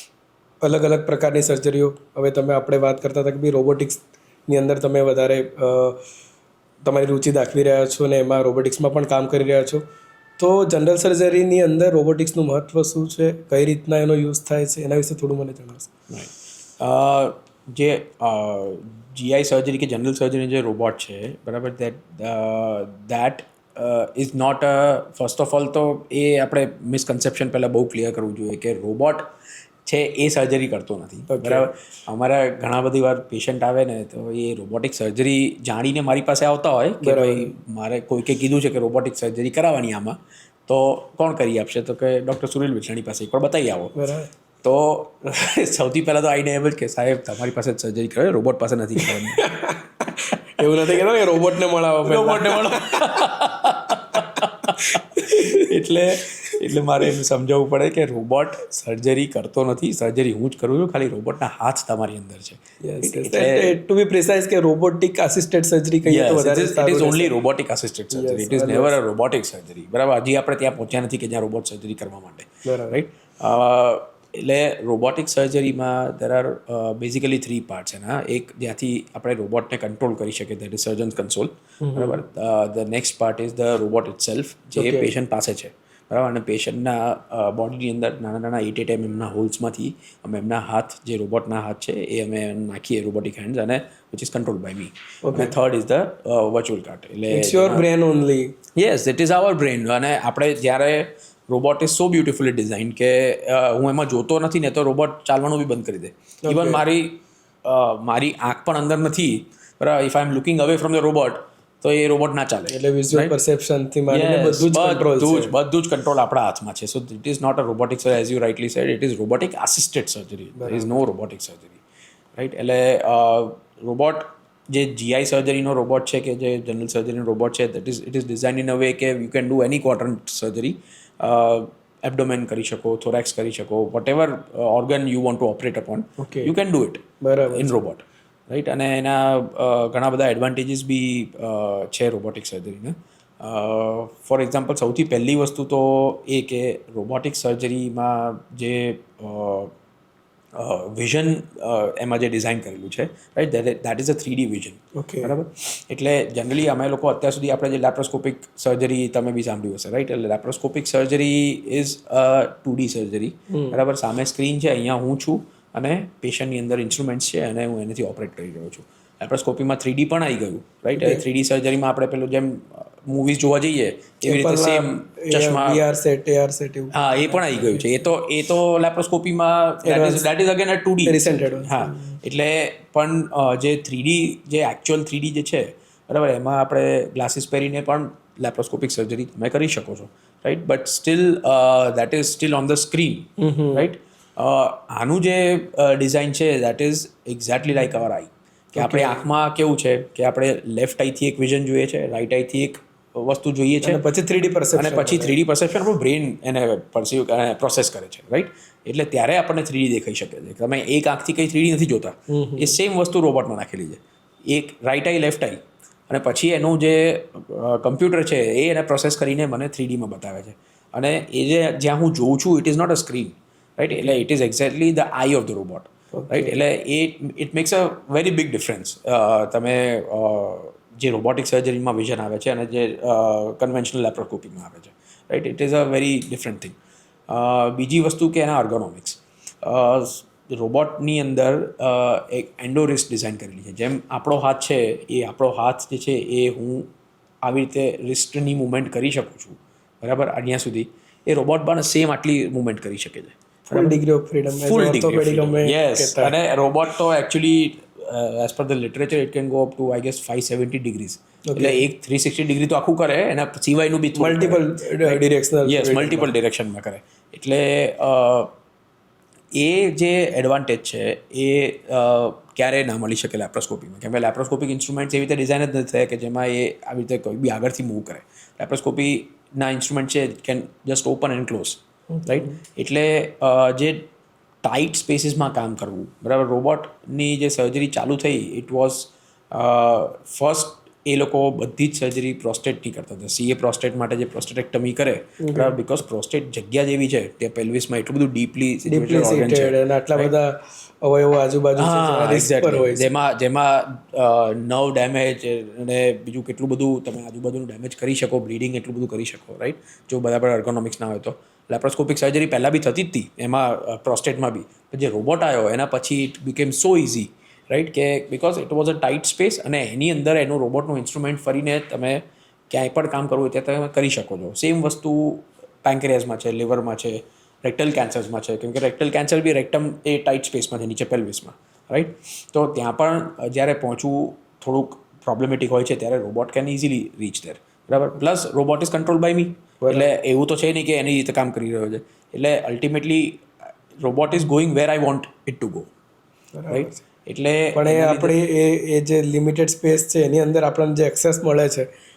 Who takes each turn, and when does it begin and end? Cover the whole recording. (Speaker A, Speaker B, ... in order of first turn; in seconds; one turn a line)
Speaker A: 0.6-6.0
Speaker A: 6.8-9.8
Speaker A: 10.4-15.9
Speaker B: 16.1-29.3
Speaker B: 29.9-44.0
Speaker A: 31.3-31.7
Speaker A: 37.0-37.5
Speaker A: 44.0-44.3
Speaker B: 44.6-49.5
Speaker A: 49.0-53.2
Speaker B: 52.0-63.8
Speaker A: 54.4-55.5
Speaker A: 62.8-67.3
Speaker B: 66.0-97.8
Speaker A: 68.1-69.0
Speaker A: 72.6-73.0
Speaker A: 81.8-82.2
Speaker A: 84.8-85.1
Speaker A: 95.2-95.5
Speaker A: 97.3-98.5
Speaker B: 98.8-113.3
Speaker A: 106.4-106.8
Speaker A: 112.7-115.5
Speaker B: 114.1-121.8
Speaker A: 120.6-121.0
Speaker B: 122.3-149.7
Speaker A: 136.2-136.5
Speaker A: 137.2-137.8
Speaker B: 150.6-175.8
Speaker A: 154.9-155.3
Speaker A: 163.5-163.8
Speaker A: 171.0-171.2
Speaker A: 174.2-177.8
Speaker B: 176.9-204.0
Speaker A: 179.8-180.3
Speaker A: 181.0-182.2
Speaker A: 193.4-193.8
Speaker A: 198.8-199.2
Speaker A: 203.8-205.3
Speaker B: 204.7-236.8
Speaker A: 212.3-212.8
Speaker A: 226.1-226.6
Speaker B: 237.3-246.9
Speaker B: 247.4-254.0
Speaker A: 253.7-256.4
Speaker B: 254.6-268.5
Speaker A: 261.5-261.8
Speaker A: 264.1-266.3
Speaker B: 269.6-284.1
Speaker A: 282.2-282.5
Speaker B: 284.6-300.3
Speaker A: 295.4-295.7
Speaker A: 298.9-303.1
Speaker B: 301.8-343.5
Speaker A: 339.8-340.1
Speaker B: 344.0-345.9
Speaker A: 346.5-347.0
Speaker B: 346.7-348.3
Speaker A: 347.7-351.9